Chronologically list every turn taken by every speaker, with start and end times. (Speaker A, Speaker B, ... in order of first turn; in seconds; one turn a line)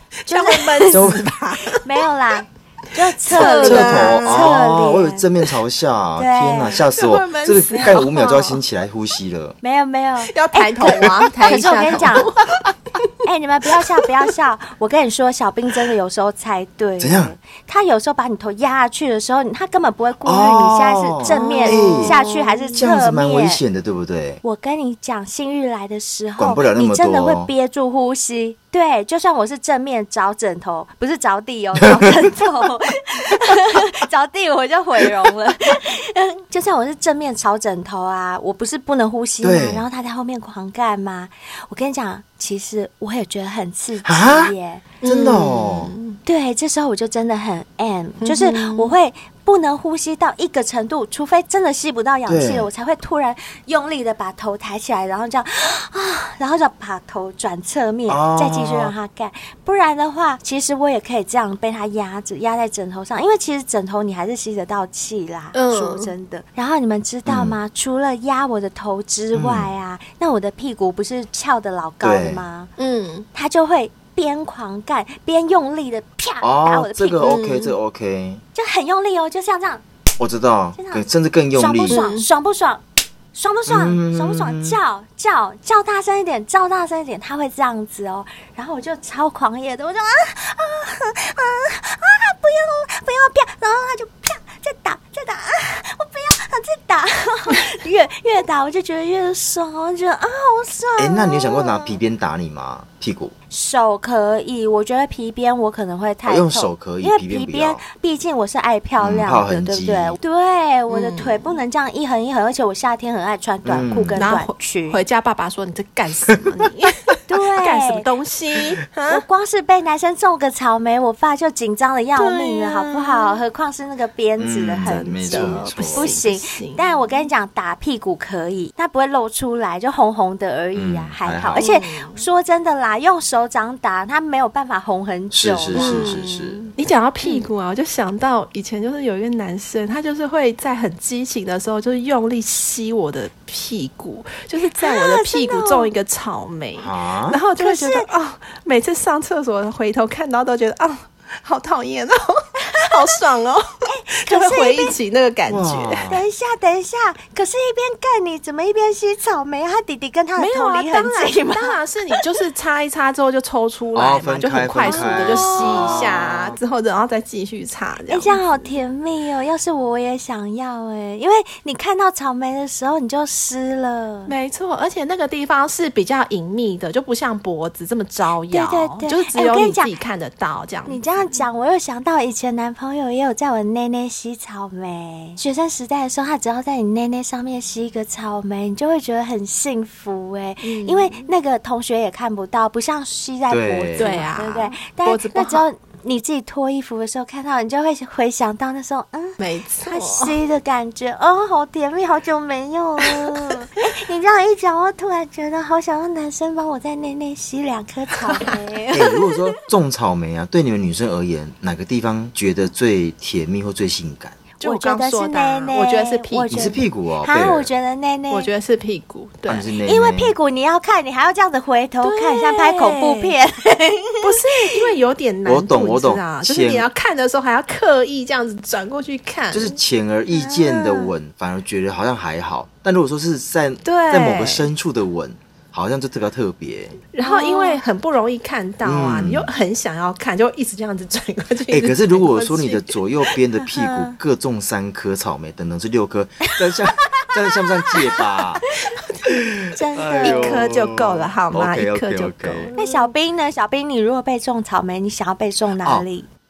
Speaker A: 0.2-1.9
Speaker B: 0.3-1.1
Speaker C: 0.9-1.2
Speaker B: 1.7-5.2
Speaker A: 3.3-4.6
Speaker C: 3.4-9.6
Speaker B: 6.2-6.8
Speaker A: 6.7-8.6
Speaker B: 9.6-12.3
Speaker A: 10.3-13.1
Speaker B: 13.2-23.6
Speaker C: 17.0-17.4
Speaker C: 20.2-22.2
Speaker A: 21.2-22.8
Speaker C: 22.8-24.4
Speaker B: 24.4-44.9
Speaker C: 26.4-27.5
Speaker C: 39.4-39.8
Speaker C: 44.0-45.9
Speaker A: 45.0-46.2
Speaker B: 46.2-72.7
Speaker A: 48.2-48.9
Speaker C: 52.3-52.7
Speaker C: 58.1-58.9
Speaker A: 65.5-66.1
Speaker C: 67.3-67.6
Speaker C: 69.3-69.7
Speaker C: 72.0-72.4
Speaker A: 72.8-73.3
Speaker B: 73.3-77.3
Speaker C: 76.4-78.4
Speaker A: 77.2-77.8
Speaker B: 78.5-79.8
Speaker C: 80.2-82.0
Speaker B: 80.8-82.8
Speaker A: 81.9-82.3
Speaker B: 83.3-102.0
Speaker C: 83.7-84.8
Speaker C: 101.0-103.3
Speaker B: 103.5-115.0
Speaker C: 106.3-107.8
Speaker C: 109.0-110.2
Speaker A: 110.9-111.6
Speaker C: 113.7-114.2
Speaker A: 114.2-119.2
Speaker B: 117.3-118.1
Speaker B: 119.1-136.2
Speaker A: 122.2-123.4
Speaker C: 124.4-126.2
Speaker A: 124.8-127.0
Speaker C: 130.8-131.7
Speaker A: 131.6-132.2
Speaker C: 135.3-136.7
Speaker A: 135.7-156.1
Speaker B: 137.2-137.5
Speaker B: 144.8-145.9
Speaker C: 146.8-147.4
Speaker B: 147.6-148.1
Speaker B: 153.9-154.9
Speaker C: 155.5-156.2
Speaker B: 156.1-162.3
Speaker A: 160.4-168.7
Speaker C: 163.9-166.6
Speaker B: 164.8-166.1
Speaker B: 168.1-174.3
Speaker A: 174.3-181.4
Speaker B: 178.5-179.9
Speaker B: 180.9-209.4
Speaker A: 190.6-191.3
Speaker C: 193.5-194.2
Speaker A: 194.0-195.7
Speaker A: 199.4-200.4
Speaker C: 208.9-214.4
Speaker A: 214.6-216.7
Speaker B: 214.6-218.5
Speaker C: 216.5-217.7
Speaker A: 218.3-219.7
Speaker C: 219.5-220.3
Speaker B: 219.8-224.6
Speaker A: 222.0-223.3
Speaker A: 224.2-229.8
Speaker C: 225.4-226.9
Speaker C: 229.5-237.0
Speaker B: 230.3-231.1
Speaker A: 233.8-234.7
Speaker A: 237.1-242.9
Speaker B: 237.2-237.8
Speaker C: 238.8-239.5
Speaker C: 241.7-248.6
Speaker B: 243.6-244.2
Speaker C: 249.3-252.7
Speaker B: 249.7-250.7
Speaker A: 250.2-253.1
Speaker B: 252.8-256.3